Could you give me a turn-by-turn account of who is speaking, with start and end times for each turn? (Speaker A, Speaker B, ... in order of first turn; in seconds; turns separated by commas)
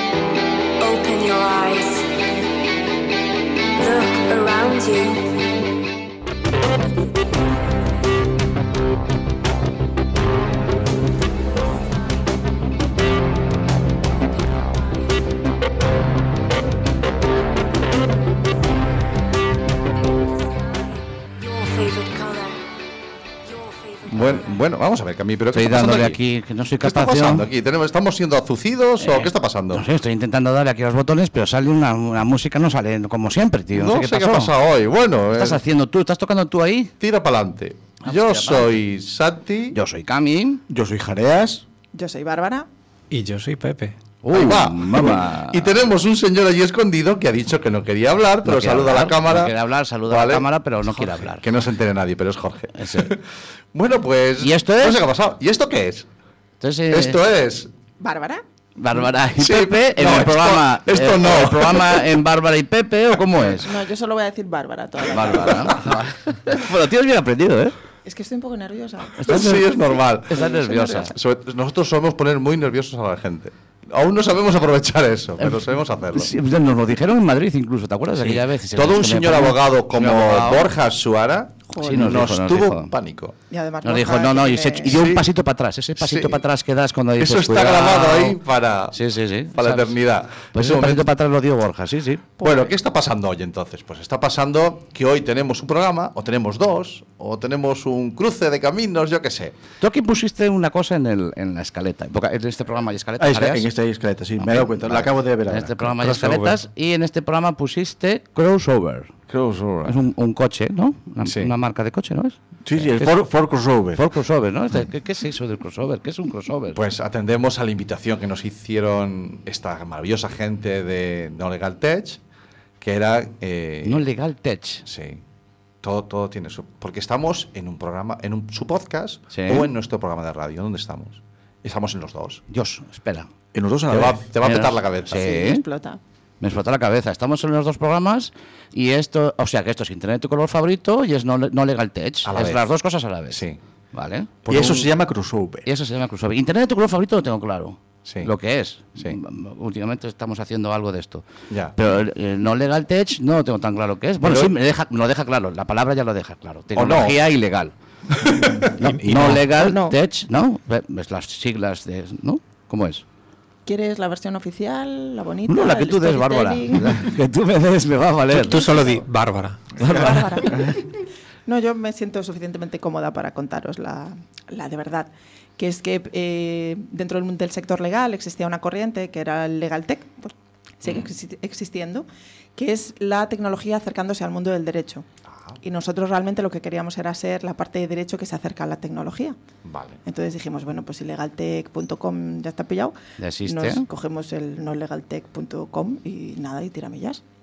Speaker A: 0.8-2.1, Speaker A: 3.8-5.5, Speaker A: 6.8-8.3, Speaker A: 11.4-12.4, Speaker A: 14.1-15.4, Speaker A: 17.3-18.8, Speaker A: 19.7-22.7, Speaker A: 23.4-24.7, Speaker B: 24.1-26.2, Speaker C: 25.5-27.5, Speaker B: 26.8-29.9, Speaker C: 29.0-34.5, Speaker B: 33.7-35.6, Speaker C: 35.3-36.9, Speaker B: 37.0-39.8, Speaker C: 38.1-38.8, Speaker C: 39.7-40.6, Speaker D: 40.7-41.6, Speaker E: 41.9-42.7, Speaker F: 43.1-44.0, Speaker C: 44.2-45.7, Speaker B: 44.3-49.5, Speaker C: 48.4-51.5, Speaker B: 50.1-56.1, Speaker C: 52.8-53.1, Speaker C: 54.4-55.0, Speaker C: 56.6-57.2, Speaker B: 56.9-57.7, Speaker E: 58.0-58.4, Speaker C: 58.8-63.7, Speaker B: 59.4-62.1, Speaker E: 63.5-65.9, Speaker C: 65.1-67.7, Speaker E: 68.0-69.3, Speaker C: 69.2-69.7, Speaker B: 69.2-76.3, Speaker C: 70.3-71.1, Speaker E: 70.3-71.1, Speaker C: 75.4-80.7, Speaker B: 78.2-83.3, Speaker E: 81.7-82.1, Speaker C: 81.8-82.9, Speaker E: 83.5-85.0, Speaker C: 83.8-88.4, Speaker B: 84.8-85.3, Speaker B: 86.0-86.4, Speaker B: 87.2-89.0, Speaker C: 88.9-90.0, Speaker B: 89.5-91.1, Speaker C: 90.5-92.3, Speaker E: 92.4-92.7, Speaker B: 92.4-99.6, Speaker C: 99.8-103.7, Speaker D: 103.2-106.0, Speaker C: 104.4-109.1, Speaker F: 106.0-106.5, Speaker B: 109.3-110.0, Speaker C: 109.8-113.3, Speaker B: 111.2-111.5, Speaker D: 112.7-114.0, Speaker C: 113.9-116.8, Speaker B: 116.7-122.2, Speaker B: 122.8-124.1, Speaker C: 123.8-124.8, Speaker B: 124.8-125.2, Speaker B: 125.8-132.4, Speaker C: 129.3-129.7, Speaker C: 132.5-133.3, Speaker D: 133.5-134.2, Speaker B: 133.9-135.3, Speaker C: 134.4-135.6, Speaker E: 135.1-136.0, Speaker C: 136.4-144.8, Speaker B: 142.2-142.6, Speaker B: 143.3-143.6, Speaker D: 144.5-145.7, Speaker B: 144.5-144.8, Speaker C: 145.6-151.2, Speaker B: 148.1-148.3, Speaker B: 151.5-151.8, Speaker C: 151.8-157.7, Speaker B: 154.2-154.5, Speaker B: 156.7-157.2, Speaker B: 158.3-159.4, Speaker C: 158.8-163.0, Speaker F: 158.8-159.4, Speaker E: 159.5-159.9, Speaker E: 163.7-167.1, Speaker C: 165.5-168.7, Speaker F: 168.3-170.4, Speaker E: 168.5-169.0, Speaker C: 169.8-170.7, Speaker E: 169.8-182.0, Speaker B: 180.8-181.1, Speaker E: 182.6-185.0, Speaker B: 185.3-185.6, Speaker E: 185.6-189.3, Speaker B: 189.6-190.0, Speaker E: 190.0-197.2, Speaker C: 193.2-193.8